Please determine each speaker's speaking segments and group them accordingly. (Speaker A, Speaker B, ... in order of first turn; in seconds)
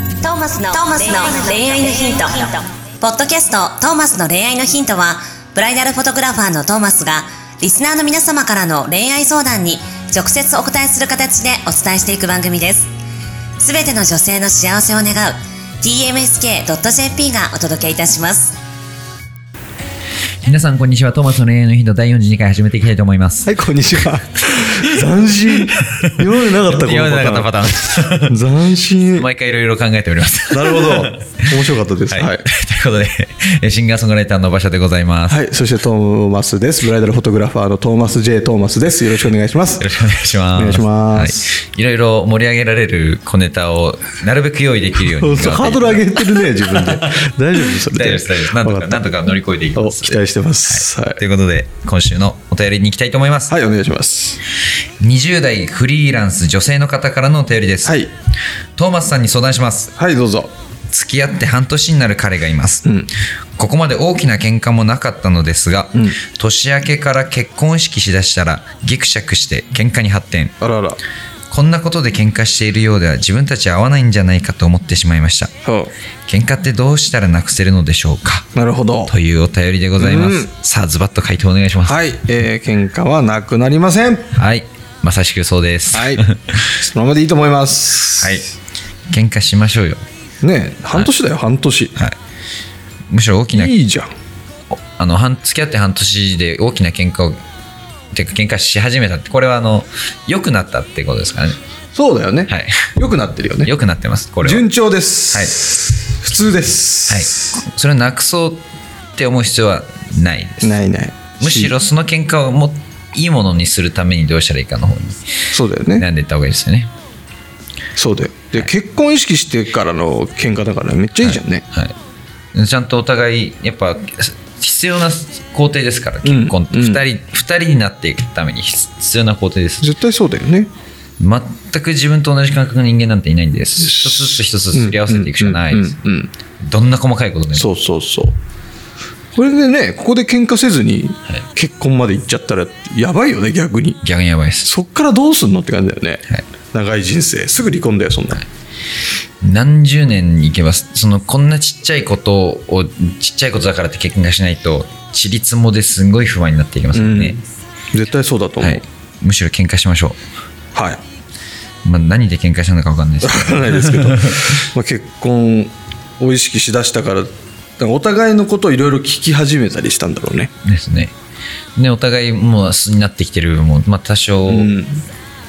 Speaker A: 0.2-12.9, 13.6-18.6
Speaker B: 20.4-24.0, 24.6-25.0, 25.7-28.4, 29.2-31.5, 32.1-35.4, 39.8-47.3, 47.8-53.5, 55.0-58.0, 58.8-59.9, 60.9-62.8, 63.6-70.5, 71.5-75.5, 76.3-78.5, 79.1-82.0, 84.4-86.7, 88.2-88.5, 89.1-90.0, 93.1-93.7, 95.0-97.4, 98.1-101.6, 102.5-102.9, 103.7-104.7, 107.1-108.6, 109.2-110.8, 111.4-115.2, 116.0-116.9, 121.2-121.9, 122.5-129.9, 131.2-136.0, 136.6-137.7, 144.0-144.7, 149.4-157.3, 158.6-160.2, 161.8-164.7, 170.6-171.1, 171.8-174.7
Speaker C: 23.4-27.5, 28.3-29.3, 30.5-32.4, 35.3-39.9, 40.5-41.5, 45.1-49.1, 49.7-51.2, 53.5-54.4, 57.8-58.1, 60.0-60.5, 62.8-63.1, 70.6-71.0, 75.6-75.9, 78.5-79.1, 80.0-80.5, 81.8-84.3, 85.9-86.2, 86.8-88.4, 90.4-92.0, 93.5-94.1, 101.9-103.7, 104.4-107.3, 110.6-111.7, 115.5-116.1, 118.0-121.6, 126.2-127.0, 129.8-130.7, 133.8-136.3, 137.5-138.3, 139.3-144.0, 144.6-148.4, 156.9-157.4, 157.9-158.8, 160.7-161.0, 163.2-170.5, 174.4-175.0